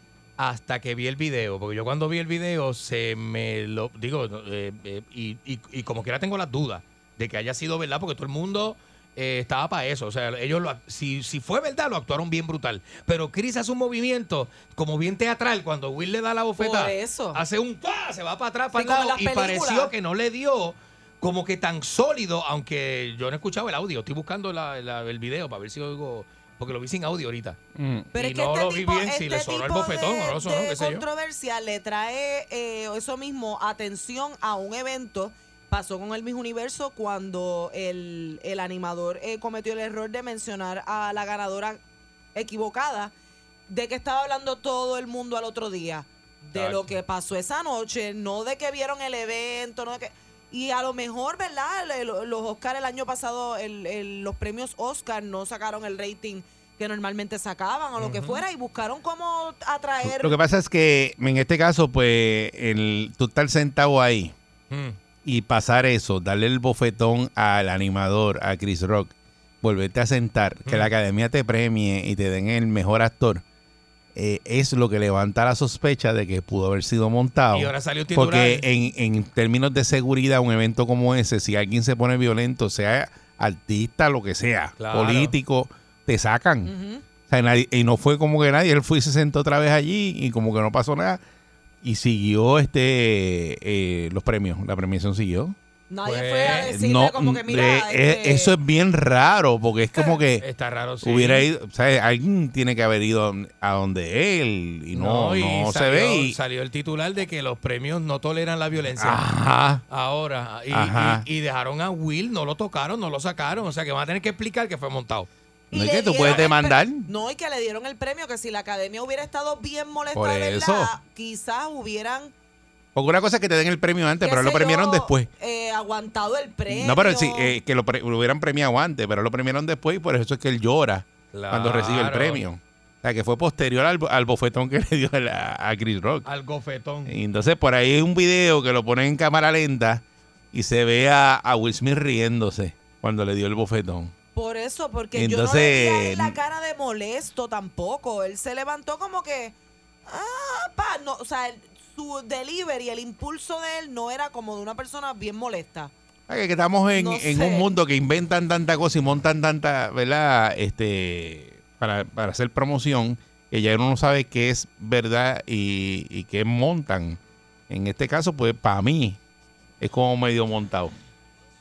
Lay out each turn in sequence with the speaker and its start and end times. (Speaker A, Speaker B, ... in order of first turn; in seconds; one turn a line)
Speaker A: 0.4-27.6
Speaker B: 16.6-17.4
Speaker B: 18.7-19.9
Speaker C: 27.8-28.1
Speaker B: 28.1-41.8
Speaker A: 28.1-31.1
Speaker B: 42.3-43.1
Speaker B: 43.7-60.4
Speaker A: 46.5-46.9
Speaker A: 58.0-58.4
Speaker C: 60.0-64.3
Speaker A: 64.7-65.0
Speaker C: 65.2-73.4
Speaker C: 74.1-86.7
Speaker A: 77.5-78.6
Speaker A: 84.8-85.3
Speaker B: 86.6-87.0
Speaker C: 87.3-91.2
Speaker C: 91.8-95.5
Speaker B: 95.9-98.5
Speaker A: 96.0-96.7
Speaker C: 96.7-100.4
Speaker A: 100.4-101.5
Speaker C: 101.0-106.3
Speaker A: 104.9-109.2
Speaker C: 109.0-109.8
Speaker A: 109.9-115.3
Speaker C: 110.7-111.2
Speaker B: 115.7-122.3
Speaker C: 115.7-117.1
Speaker C: 120.1-120.9
Speaker C: 122.9-125.3
Speaker B: 124.2-127.5
Speaker C: 126.7-136.3
Speaker A: 131.3-132.4
Speaker A: 136.2-137.1
Speaker C: 137.1-144.1
Speaker B: 144.3-149.5
Speaker C: 145.2-146.4
Speaker B: 150.1-155.9
Speaker C: 156.3-169.2
Speaker B: 156.9-157.7
Speaker C: 169.8-170.9